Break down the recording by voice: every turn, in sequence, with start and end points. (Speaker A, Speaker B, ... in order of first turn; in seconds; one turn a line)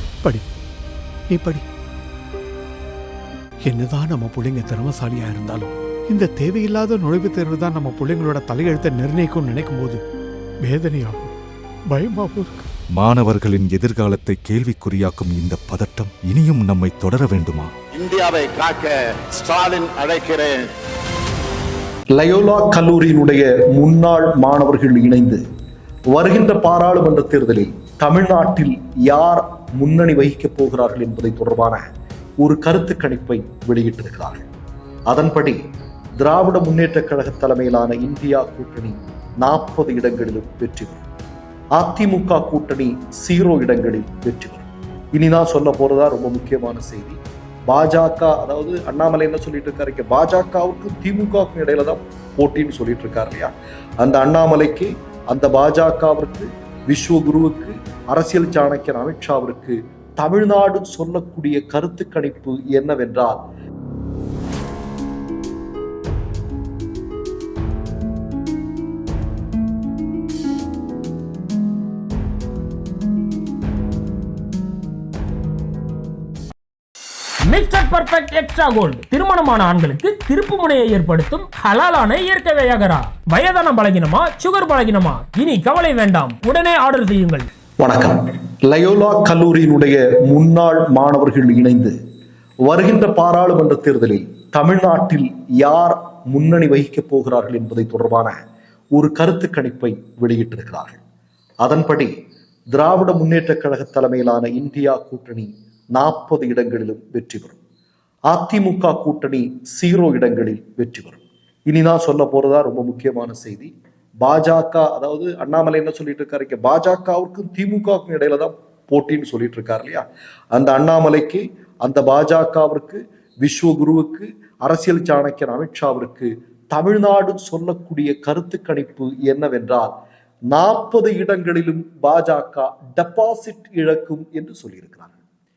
Speaker A: 1.3-1.6
Speaker A: 3.6-10.0
Speaker A: 10.6-11.3
Speaker A: 11.9-12.6
Speaker B: 13.0-17.7
Speaker C: 17.9-20.7
Speaker D: 22.1-25.4
Speaker D: 26.1-31.8
Speaker D: 32.4-34.5
Speaker D: 35.1-35.6
Speaker D: 36.2-41.0
Speaker D: 41.8-63.4
Speaker E: 77.5-87.5
Speaker D: 87.8-92.0
Speaker D: 92.7-98.3
Speaker D: 98.9-101.0
Speaker D: 101.6-102.1
Speaker D: 102.7-107.6
Speaker D: 108.3-129.9
Speaker D: 130.5-135.1